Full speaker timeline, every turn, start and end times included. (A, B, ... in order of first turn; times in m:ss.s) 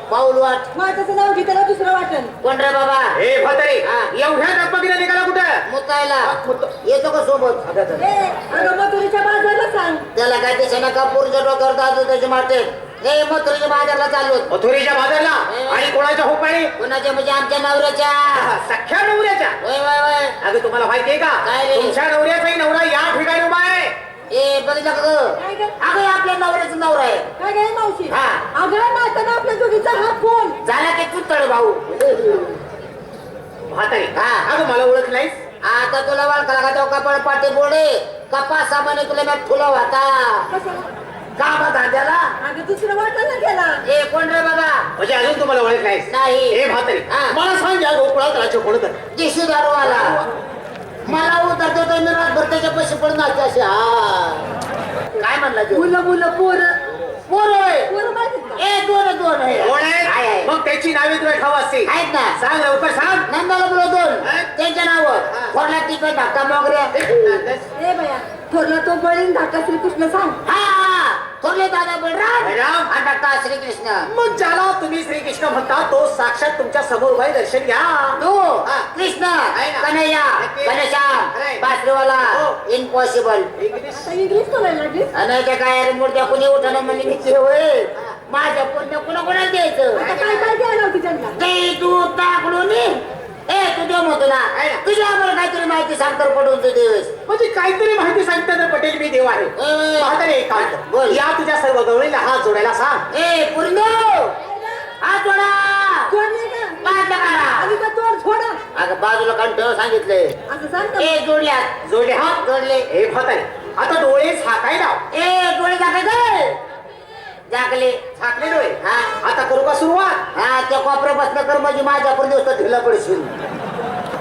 0:00.1-0:00.7 A
0:00.7-0:02.3 B
0:02.4-0:03.2 A
0:03.1-0:05.7 C
0:03.8-0:04.1 A
0:05.6-0:07.7 A
0:06.2-0:06.7 C
0:07.6-0:08.6 C
0:08.0-0:10.0 B
0:10.1-0:14.5 A
0:14.5-0:16.7 C
0:15.4-0:15.9 A
0:16.8-0:18.5 A
0:18.3-0:19.6 C
0:19.6-0:20.4 A
0:20.4-0:23.9 C
0:21.4-0:22.0 A
0:24.3-0:27.3 A
0:25.4-0:25.7 B
0:27.4-0:30.6 B
0:28.1-0:28.4 A
0:30.6-0:32.0 A
0:33.7-0:35.4 C
0:34.1-0:34.5 A
0:35.6-0:40.5 A
0:40.5-0:40.9 B
0:41.4-0:42.3 A
0:42.4-0:43.8 B
0:43.8-0:44.9 A
0:45.0-0:49.0 C
0:46.1-0:47.4 A
0:49.1-0:50.2 A
0:49.8-0:50.2 C
0:51.0-0:54.5 A
0:55.2-0:55.9 A
0:55.7-0:56.8 B
0:57.3-0:57.9 A
0:57.8-0:58.6 B
0:58.6-1:00.5 A
0:59.5-1:03.3 C
1:01.8-1:02.4 A
1:03.2-1:06.9 A
1:04.2-1:04.5 C
1:05.2-1:05.5 C
1:06.9-1:07.7 C
1:07.7-1:10.4 B
1:10.4-1:14.1 A
1:12.4-1:12.9 C
1:14.1-1:18.9 C
1:18.2-1:23.5 A
1:19.5-1:21.7 C
1:22.2-1:22.6 C
1:23.6-1:24.0 C
1:23.9-1:25.1 B
1:25.1-1:30.1 A
1:29.9-1:31.4 B
1:30.0-1:30.5 C
1:31.3-1:37.1 A
1:34.5-1:34.8 C
1:37.3-1:43.0 C
1:39.5-1:41.2 A
1:43.1-1:44.4 A
1:45.0-1:46.1 A
1:46.1-1:48.6 B
1:46.8-1:47.7 A
1:48.7-1:50.4 A
1:50.5-1:51.2 B
1:51.0-1:51.8 A
1:51.8-1:55.0 C
1:52.3-1:52.9 A
1:55.1-1:56.6 A
1:57.5-1:58.0 A
1:58.2-2:00.2 C
1:58.8-1:59.2 A
2:00.3-2:03.3 A